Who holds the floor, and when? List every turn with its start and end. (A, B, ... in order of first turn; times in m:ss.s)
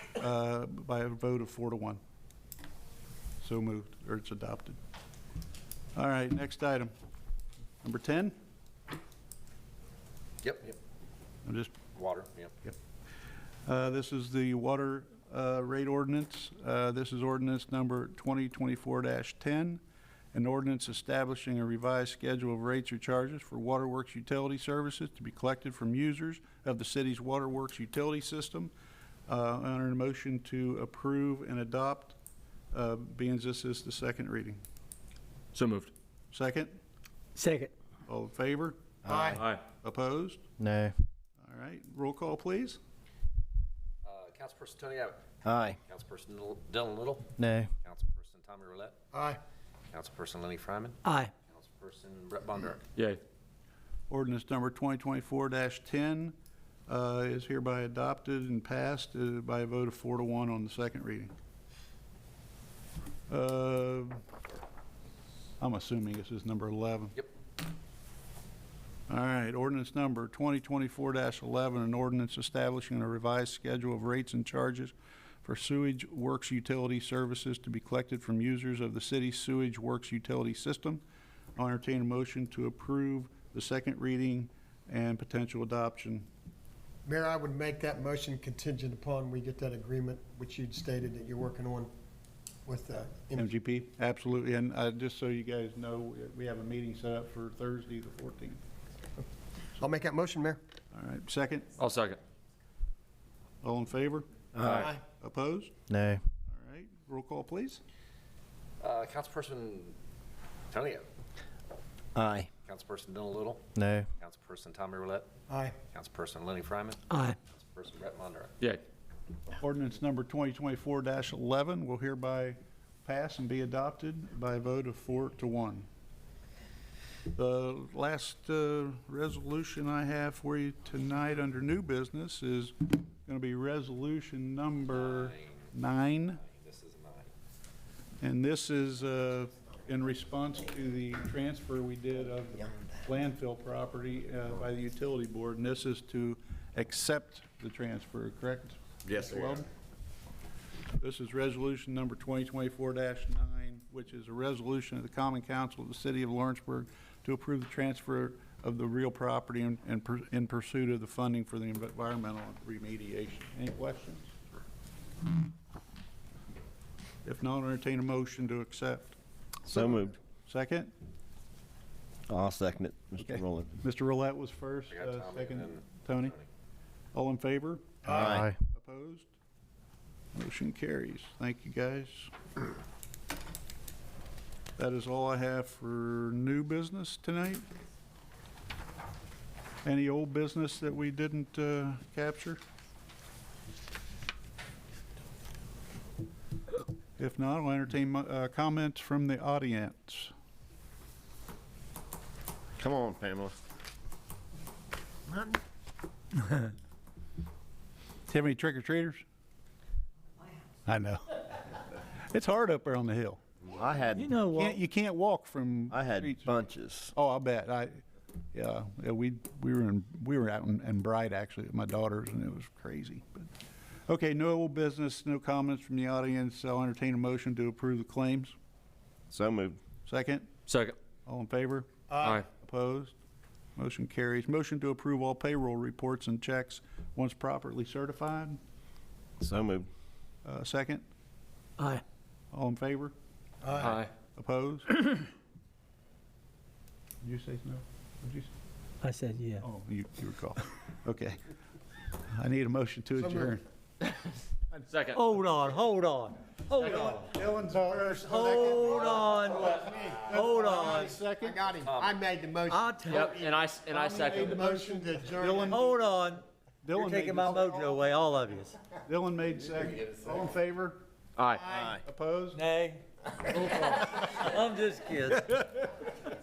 0:00.2-0:02.0 A
0:03.4-0:04.8 A
0:06.0-0:06.9 A
0:07.8-0:08.3 A
0:10.4-0:10.8 B
0:11.4-0:11.7 A
0:11.9-0:12.5 B
0:13.6-0:19.8 A
0:20.3-0:28.7 A
0:29.3-0:32.2 A
0:32.7-0:34.6 A
0:35.5-0:35.9 C
0:36.3-0:36.8 A
0:37.4-0:37.7 D
0:38.1-0:38.8 A
0:39.0-0:39.4 E
0:39.0-0:39.4 F
0:39.3-0:39.6 C
0:39.8-0:40.4 A
0:40.6-0:40.9 E
0:41.4-0:42.8 A
0:44.0-0:45.2 B
0:45.4-0:45.8 E
0:45.9-0:49.0 B
0:47.4-0:47.7 E
0:49.1-0:49.4 F
0:49.9-0:52.8 B
0:51.0-0:51.3 D
0:52.9-0:53.2 C
0:54.1-0:56.3 A
0:56.9-1:01.3 A
1:03.3-1:04.2 A
1:05.6-1:07.2 A
1:09.1-1:21.0 A
1:21.6-1:26.3 A
1:27.0-1:31.9 F
1:32.6-1:33.5 F
1:33.3-1:38.6 A
1:39.8-1:40.6 F
1:40.9-1:41.7 A
1:41.8-1:42.2 C
1:43.6-1:45.7 A
1:44.5-1:44.9 E
1:44.6-1:44.9 C
1:44.7-1:45.0 F
1:45.9-1:46.2 E
1:46.5-1:47.8 A
1:48.8-1:50.0 B
1:50.7-1:51.1 B
1:52.1-1:52.5 E
1:52.6-1:55.3 B
1:53.8-1:54.1 E
1:55.5-1:55.8 F
1:55.9-1:58.5 B
1:57.1-1:57.4 D
1:59.6-2:05.9 A
2:07.3-2:16.4 A
2:14.9-2:15.7 B
2:16.4-2:17.3 B
2:18.2-2:29.7 A
2:31.0-2:44.4 A
2:47.2-2:49.2 A
2:49.7-2:50.2 E
2:49.7-2:50.9 A
2:52.3-2:53.8 E
2:53.2-2:56.3 A
2:54.9-2:56.4 B
2:57.1-2:59.3 A
2:58.1-2:58.5 E
3:00.3-3:02.3 A
3:04.8-3:07.7 A
3:09.8-3:12.6 A
3:17.2-3:20.3 A
3:22.8-3:23.5 E
3:28.3-3:29.2 A
3:30.8-3:33.4 A
3:33.6-3:34.4 E
3:34.2-3:34.8 D
3:34.5-3:36.5 A
3:35.9-3:37.1 E
3:37.1-3:38.0 A
3:38.5-3:43.5 A
3:44.1-3:48.5 A
3:49.3-3:49.8 E
3:50.0-3:50.5 A
3:50.7-3:50.9 C
3:51.2-3:51.9 A
3:52.1-3:52.4 F
3:52.2-3:52.5 C
3:52.5-3:53.2 A
3:53.8-3:58.6 A
3:59.4-3:59.9 E
4:00.4-4:01.0 A
4:02.5-4:03.1 A
4:03.6-4:04.1 F
4:03.8-4:04.1 C
4:04.3-4:05.0 A
4:07.2-4:08.5 A
4:09.0-4:09.6 D
4:09.6-4:11.4 A
4:12.3-4:13.6 A
4:13.2-4:13.5 F
4:14.9-4:15.2 C
4:15.1-4:17.3 D
4:16.7-4:19.3 A
4:17.9-4:19.7 D
4:18.6-4:25.9 F
4:20.1-4:21.6 A
4:20.3-4:21.2 D
4:21.8-4:22.2 B
4:22.7-4:23.4 D
4:23.1-4:24.0 B
4:23.9-4:26.0 A
4:25.6-4:28.8 D
4:26.8-4:27.8 A
4:29.0-4:31.0 A
4:31.4-4:31.6 C
4:31.5-4:31.9 F
4:31.7-4:32.0 E
4:31.7-4:32.6 A
4:32.6-4:35.6 D
4:33.4-4:34.4 A
4:35.3-4:35.9 A